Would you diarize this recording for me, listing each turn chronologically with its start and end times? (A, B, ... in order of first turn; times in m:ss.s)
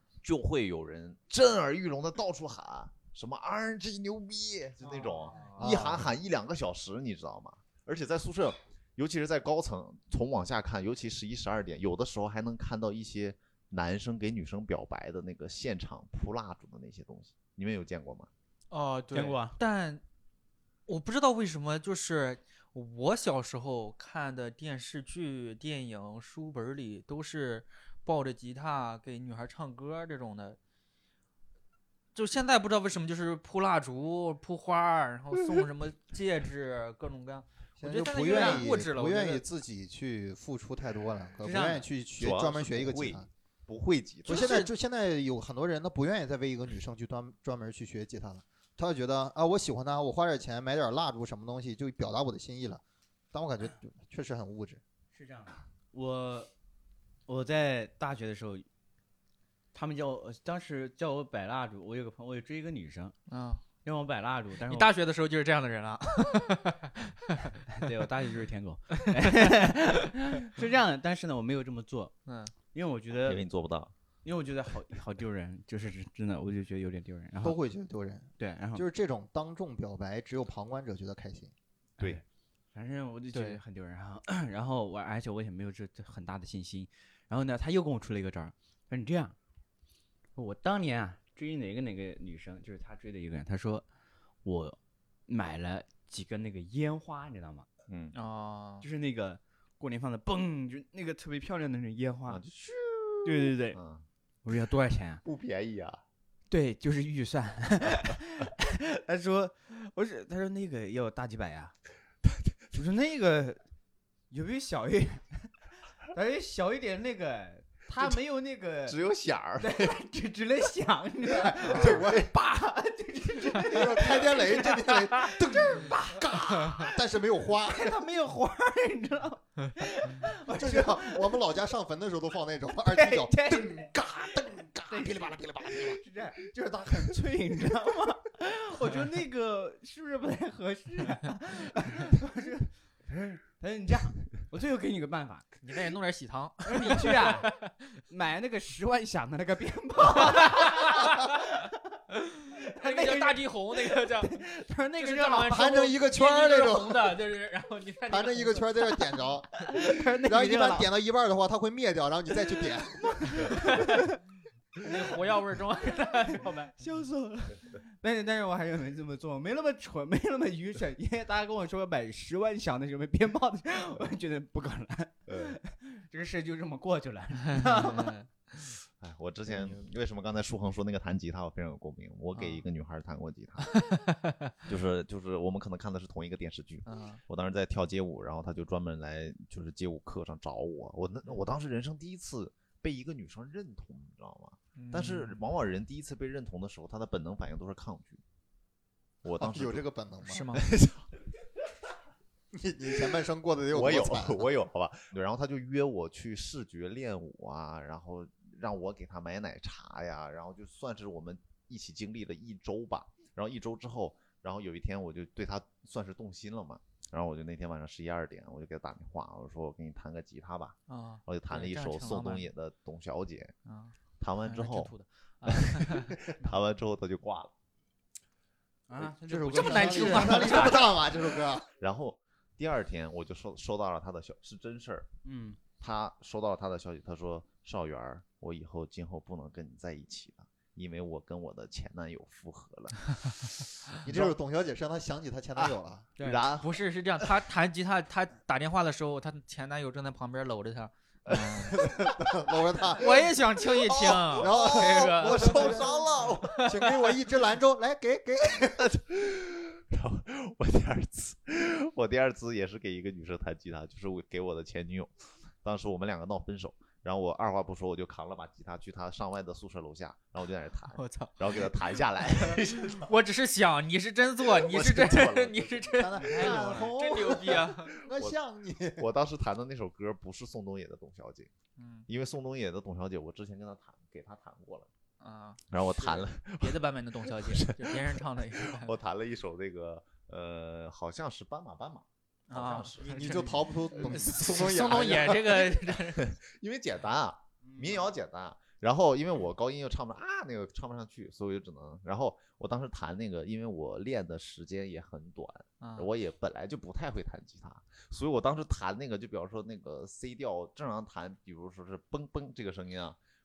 0:00.2-0:18.3 A
0:04.8-0:05.6 B
0:05.6-0:06.1 C
0:18.7-0:20.0 B
0:19.1-0:19.6 D
0:20.9-0:30.6 B
0:32.1-0:39.4 B
0:37.8-0:43.3 C
0:38.3-0:38.6 D
0:41.4-0:41.8 D
0:42.2-0:44.5 A
0:44.2-0:52.8 C
0:44.2-0:44.7 B
0:53.3-0:54.8 C
0:55.1-0:56.5 D
0:57.3-0:58.7 D
0:59.7-1:03.1 D
1:03.3-1:03.6 B
1:03.8-1:04.9 D
1:04.6-1:07.6 B
1:07.7-1:12.1 D
1:09.2-1:09.4 B
1:12.2-1:12.5 B
1:12.7-1:13.4 D
1:13.1-1:13.9 A
1:14.2-1:17.6 D
1:17.4-1:21.5 C
1:18.4-1:18.8 D
1:22.0-1:29.4 D
1:23.3-1:23.6 B
1:30.4-1:33.8 D
1:34.4-1:37.7 D
1:37.9-1:38.1 A
1:38.1-1:38.8 B
1:38.8-1:42.4 D
1:42.3-1:44.0 A
1:43.2-1:43.8 D
1:44.4-1:45.2 D
1:45.2-1:46.0 A
1:46.5-1:51.7 D
1:52.7-1:53.6 D
1:54.3-1:55.5 D
1:56.1-1:59.0 D
1:58.8-1:59.9 A
1:59.6-2:06.9 D
2:01.3-2:02.3 C
2:01.7-2:02.0 B
2:03.6-2:08.0 C
2:07.6-2:11.4 D
2:10.5-2:16.0 C
2:12.9-2:13.9 D
2:14.9-2:25.5 D
2:25.6-2:27.7 B
2:26.7-2:31.8 D
2:30.2-2:31.4 B
2:32.3-2:34.4 B
2:32.6-2:35.8 D
2:35.0-2:39.1 B
2:35.5-2:37.2 C
2:38.1-2:43.7 C
2:39.7-2:40.9 D
2:43.4-2:44.0 B
2:43.6-2:43.9 D
2:44.8-2:46.8 B
2:46.8-2:58.2 D
2:55.3-2:55.5 A
2:57.7-2:58.3 B
2:59.0-3:03.8 A
3:02.3-3:02.6 B
3:03.7-3:04.5 B
3:04.6-3:18.2 A
3:06.8-3:07.2 B
3:14.8-3:15.4 B
3:19.2-3:19.8 A
3:19.4-3:20.5 C
3:20.2-3:20.7 B
3:20.5-3:21.1 A
3:22.5-3:24.5 C
3:23.7-3:43.5 A
3:40.9-3:42.4 B
3:43.6-3:43.9 B
3:44.2-3:44.9 A
3:44.5-3:46.6 B
3:45.4-3:47.5 A
3:48.9-3:50.9 D
3:49.2-3:51.7 C
3:49.4-3:51.1 B
3:51.8-3:55.1 A
3:55.2-3:55.6 D
3:55.8-4:04.3 A
4:04.0-4:06.1 C
4:05.6-4:07.2 A
4:06.6-4:11.8 B
4:11.3-4:11.9 A
4:11.8-4:13.3 C
4:12.9-4:15.9 B
4:13.7-4:16.6 A
4:14.4-4:18.9 C
4:16.4-4:16.9 B
4:18.6-4:25.1 A
4:25.6-4:33.1 A
4:31.0-4:37.9 B
4:34.4-4:36.0 A
4:35.9-4:39.0 C
4:36.2-4:36.9 D
4:39.0-4:41.5 A
4:41.8-4:42.0 B
4:42.1-4:44.9 A
4:45.2-4:45.6 B
4:45.7-4:53.4 A
4:46.6-4:48.9 B
4:52.5-4:56.3 B
4:53.0-4:55.7 C
4:54.0-4:54.3 A
4:54.9-5:13.2 A
4:57.6-4:58.1 D
5:05.8-5:06.1 B